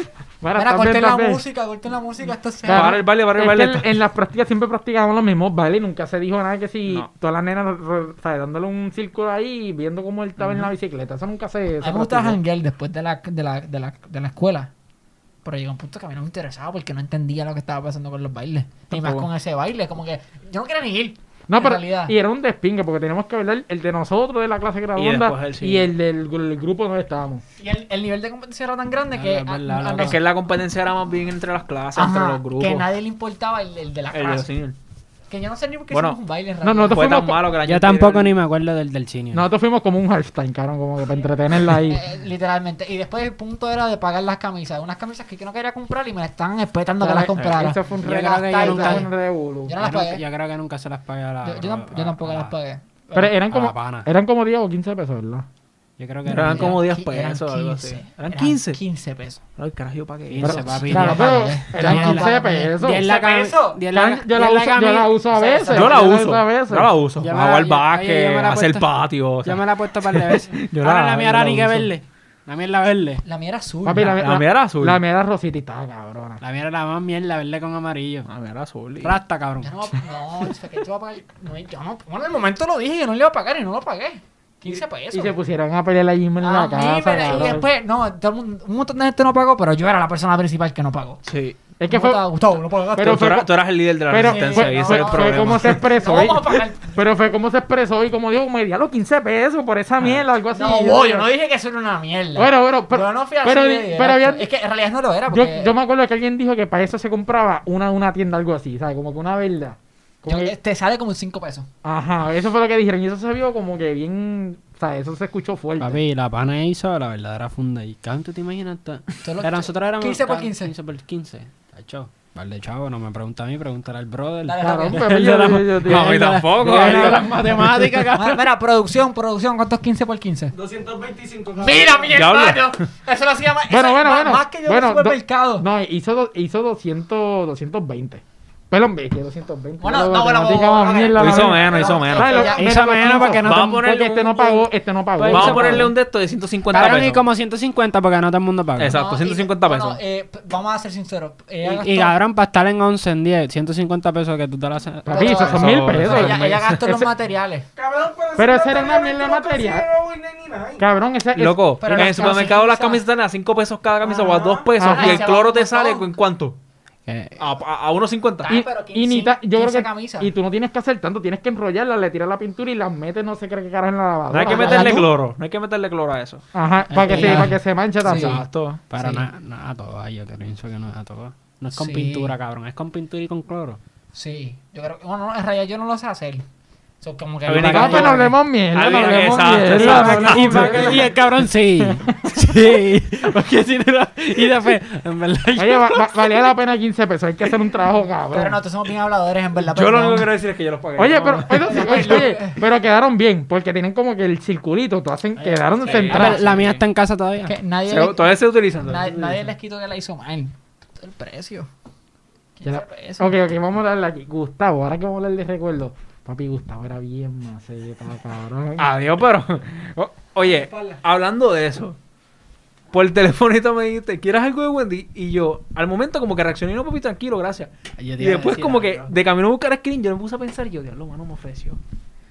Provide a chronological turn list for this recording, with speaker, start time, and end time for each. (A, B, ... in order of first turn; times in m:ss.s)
0:00.4-0:01.4 A
0:00.5-0:03.0 B
0:02.6-0:12.4 A
0:02.7-0:03.9 C
0:11.8-0:14.7 B
0:15.4-0:22.1 B
0:18.9-0:19.3 C
0:21.5-0:27.4 A
0:25.0-0:25.9 C
0:27.6-0:30.2 B
0:29.1-0:30.2 D
0:30.0-0:32.9 C
0:31.9-0:34.5 B
0:34.1-0:34.8 C
0:35.3-0:37.0 B
0:35.9-0:36.2 C
0:36.6-0:37.5 A
0:36.9-0:38.3 C
0:37.6-0:39.5 D
0:39.3-0:42.0 A
0:41.8-0:49.1 B
0:47.0-0:49.8 A
0:48.0-0:49.1 D
0:49.7-0:50.2 B
0:49.8-0:52.5 D
0:51.4-0:53.3 B
0:53.1-0:55.5 A
0:53.5-0:54.1 D
0:56.0-0:56.8 D
0:56.3-0:58.8 C
0:56.4-0:59.4 B
0:59.6-1:00.8 C
1:00.3-1:05.1 D
1:00.4-1:03.0 A
1:00.6-1:03.8 B
1:03.9-1:06.9 A
1:05.3-1:06.1 B
1:05.7-1:11.9 C
1:07.2-1:08.9 D
1:09.4-1:13.2 D
1:13.2-1:14.2 B
1:13.8-1:16.4 A
1:14.2-1:15.0 C
1:16.4-1:18.3 D
1:18.3-1:19.2 C
1:19.0-1:19.7 D
1:19.6-1:25.4 B
1:25.1-1:27.6 A
1:26.4-1:31.2 B
1:31.2-1:31.6 C
1:31.8-1:32.2 A
1:31.9-1:33.3 B
1:33.0-1:33.5 A
1:33.0-1:35.8 C
1:34.1-1:41.3 A
1:34.2-1:37.0 B
1:40.5-1:45.7 B
1:42.4-1:44.4 A
1:45.3-1:50.5 A
1:50.2-1:51.7 B
1:51.8-1:56.0 A
1:55.8-2:08.4 D
1:59.2-2:00.7 B
2:04.4-2:05.1 B
2:04.6-2:07.8 A
2:05.8-2:07.4 C
2:08.1-2:10.5 B
2:10.5-2:12.2 E
2:11.6-2:15.6 B
2:12.1-2:12.8 C
2:13.7-2:25.9 A
2:19.8-2:22.7 B
2:21.2-2:22.5 C
2:21.6-2:22.5 E
2:22.5-2:23.9 D
2:23.4-2:24.6 C
2:25.2-2:25.9 D
2:25.3-2:27.2 C
2:26.7-2:29.0 D
2:28.8-2:30.0 C
2:28.9-2:32.2 B
2:31.6-2:35.8 D
2:35.0-2:37.1 A
2:35.1-2:37.6 B
2:35.4-2:36.8 C
2:37.8-2:40.8 E
2:38.4-2:39.8 A
2:40.8-2:42.5 A
2:41.3-2:46.6 C
2:41.8-2:43.0 B
2:44.0-2:44.7 E
2:44.8-2:46.1 B
2:44.8-2:45.3 A
2:47.1-2:47.4 D
2:47.4-2:48.5 C
2:48.4-2:50.3 B
2:48.5-2:55.1 A
2:54.3-2:56.4 C
2:54.5-2:55.1 B
2:56.5-2:58.4 A
2:56.9-2:57.5 D
2:57.0-2:58.4 B
2:58.0-2:58.8 C
2:58.1-3:03.8 D
2:59.0-2:59.2 B
3:01.8-3:02.3 B
3:04.1-3:06.4 B
3:07.0-3:08.3 B
3:07.4-3:11.1 C
3:07.6-3:11.1 A
3:09.6-3:16.1 D
3:11.8-3:12.1 A
3:15.5-3:18.6 A
3:18.3-3:20.3 B
3:19.7-3:22.3 C
3:21.0-3:26.4 A
3:21.5-3:22.6 B
3:25.8-3:26.8 C
3:25.9-3:26.4 B
3:25.9-3:27.5 D
3:27.4-3:31.7 B
3:27.9-3:29.4 C
3:32.6-3:33.3 B
3:32.6-3:38.9 A
3:38.8-3:42.0 C
3:40.5-3:41.0 E
3:42.9-3:51.8 C
3:48.0-3:49.1 D